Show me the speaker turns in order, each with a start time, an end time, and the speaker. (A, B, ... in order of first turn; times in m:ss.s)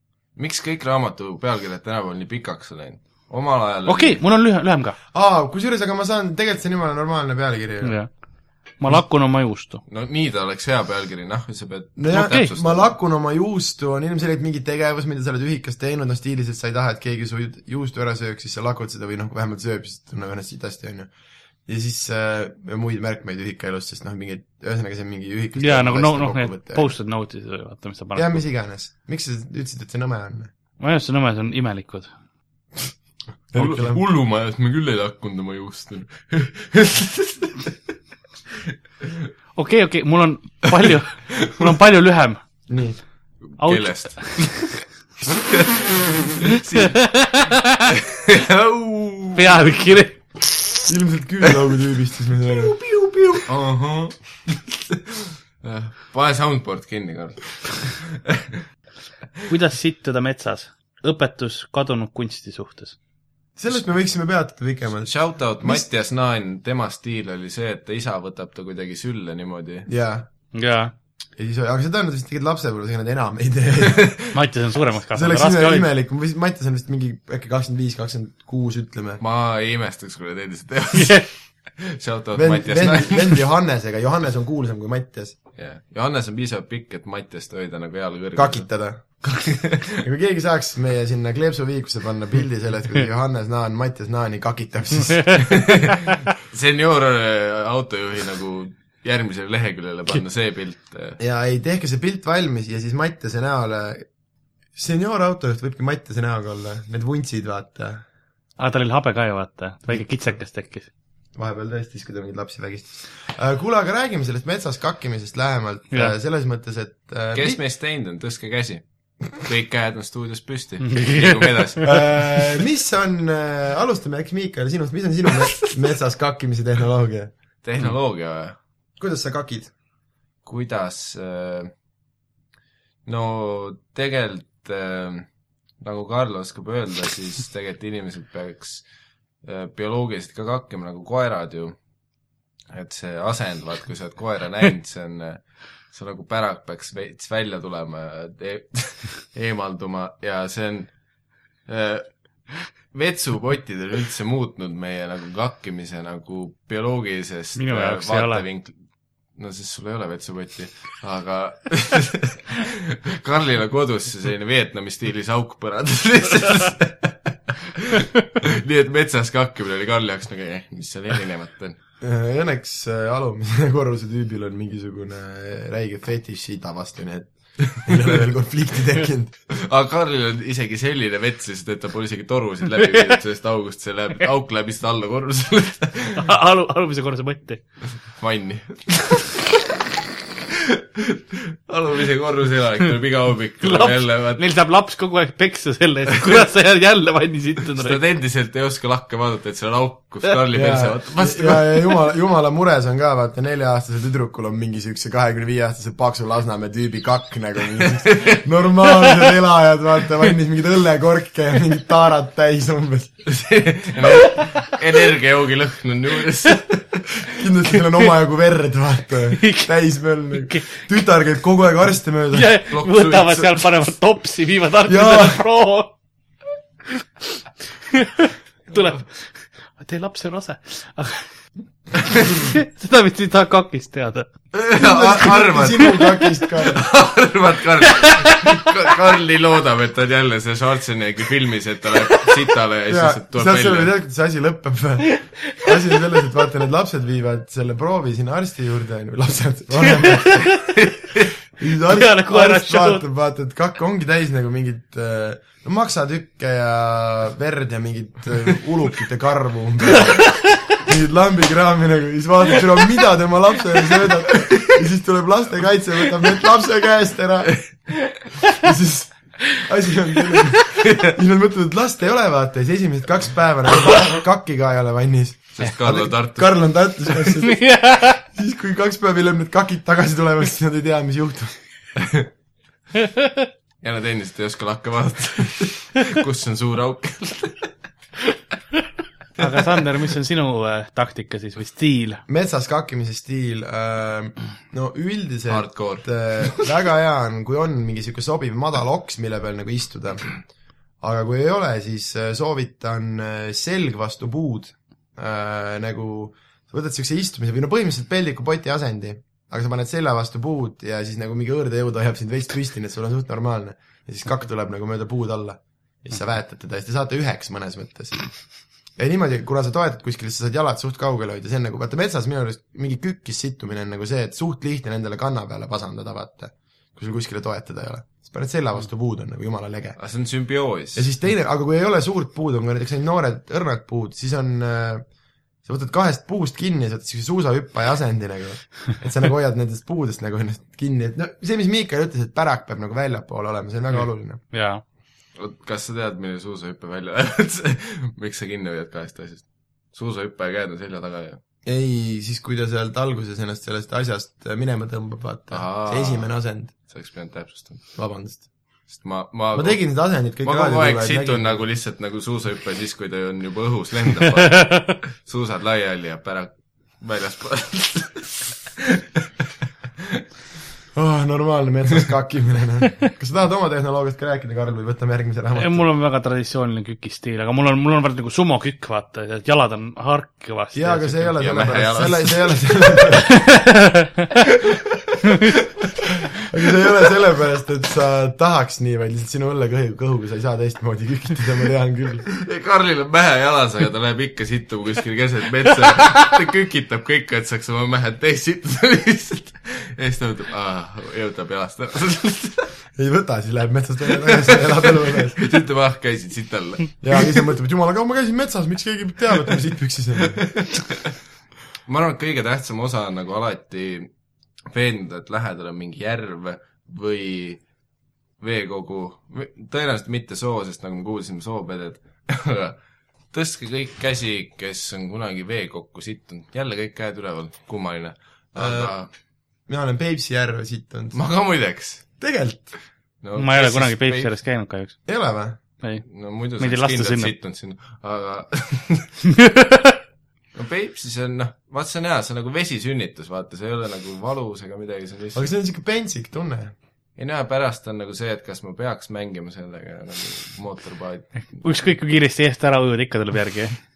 0:00.4-0:04.2 A
0:03.8-0:05.0 B
0:05.1-0:08.0 C
0:07.8-0:09.8 B
0:09.8-0:12.9 A
0:12.0-0:21.1 C
0:12.1-0:12.5 B
0:21.6-0:26.9 C
0:25.6-0:28.4 B
0:28.1-0:30.5 C
0:30.8-0:32.1 B
0:33.5-0:34.0 C
0:33.5-0:37.7 A
0:39.5-0:42.4 B
0:42.7-0:43.0 C
0:43.5-0:44.7 A
0:43.6-0:44.7 B
0:45.4-0:49.6 A
0:46.5-0:47.8 B
0:49.3-0:50.2 B
0:50.9-0:52.7 C
0:52.6-0:58.6 A
0:59.5-1:03.0 B
1:03.6-1:05.8 C
1:05.0-1:09.9 A
1:09.9-1:10.3 C
1:10.5-1:10.9 B
1:11.4-1:14.3 C
1:13.8-1:14.1 A
1:14.3-1:15.8 B
1:15.1-1:19.2 C
1:19.2-1:23.4 A
1:20.9-1:21.2 B
1:22.3-1:25.4 C
1:25.5-1:29.9 A
1:28.3-1:29.3 C
1:29.9-1:35.7 C
1:35.5-1:41.2 A
1:41.2-1:44.1 C
1:44.7-1:48.0 C
1:48.6-1:50.9 B
1:49.9-1:50.3 C
1:51.3-1:57.6 C
1:57.3-2:02.2 A
2:00.8-2:01.9 B
2:01.8-2:07.3 C
2:07.6-2:08.6 A
2:09.0-2:09.7 C
2:10.4-2:11.7 A
2:13.0-2:15.3 A
2:15.8-2:18.8 A
2:19.4-2:21.8 A
2:22.7-2:31.0 A
2:31.6-2:38.8 A
2:37.6-2:38.4 B
2:39.3-2:51.8 A
2:52.0-2:59.3 C
2:59.5-3:06.2 A
3:02.8-3:03.1 B
3:06.2-3:07.6 B
3:08.2-3:09.5 A
3:10.5-3:14.4 A
3:13.6-3:18.0 B
3:17.8-3:21.8 A
3:20.5-3:33.2 C
3:27.8-3:28.4 A
3:33.2-3:37.2 A
3:34.1-3:34.7 B
3:37.3-3:42.5 C
3:39.4-3:39.7 B
3:40.5-3:40.8 B
3:42.3-3:45.9 B
3:42.7-3:43.8 A
3:44.9-3:45.4 C
3:47.9-3:51.3 B
3:52.0-3:52.3 A
3:52.1-3:54.3 B
3:54.5-4:03.9 A
3:54.8-3:56.8 C
3:58.1-3:58.4 B
4:02.9-4:10.4 C
4:09.9-4:10.7 B
4:11.6-4:27.6 C
4:11.8-4:13.0 B
4:24.5-4:24.8 A
4:28.6-4:37.6 C
4:30.8-4:31.1 A
4:35.5-4:36.6 A
4:37.4-4:38.2 B
4:38.2-4:41.5 C
4:43.0-4:43.4 B
4:43.8-4:47.7 A
4:49.4-4:52.2 B
4:52.3-5:00.4 C
4:55.5-4:56.6 A
5:01.0-5:18.4 C
5:19.0-5:30.0 C
5:30.0-5:31.1 A
5:30.9-5:35.0 C
5:35.6-5:44.4 C
5:44.5-5:44.8 B
5:45.4-5:51.4 A
5:51.6-5:56.7 C
5:55.5-5:57.9 A
5:58.0-5:58.4 C
5:58.9-6:09.2 A
5:59.5-6:01.6 C
6:10.9-6:15.8 C
6:15.5-6:21.3 B
6:20.7-6:23.3 C
6:21.4-6:22.6 A
6:23.4-6:24.2 B
6:26.5-6:32.3 C
6:32.3-6:42.7 A
6:43.0-6:45.4 C
6:44.2-6:47.4 A
6:47.0-6:50.5 C
6:50.3-6:51.1 A
6:51.9-6:54.1 A
6:54.7-6:57.6 A
6:58.4-7:02.8 A
7:03.3-7:09.1 A
7:08.5-7:08.9 C
7:09.7-7:11.2 C
7:11.1-7:12.0 A
7:12.2-7:12.7 C
7:13.2-7:14.3 A
7:13.4-7:15.0 B
7:15.0-7:15.6 C
7:15.8-7:16.0 B
7:16.0-7:19.1 A
7:16.6-7:17.3 B
7:19.4-7:19.9 B
7:20.5-7:25.4 A
7:25.3-7:26.7 C
7:27.2-7:31.6 A
7:31.5-7:33.8 B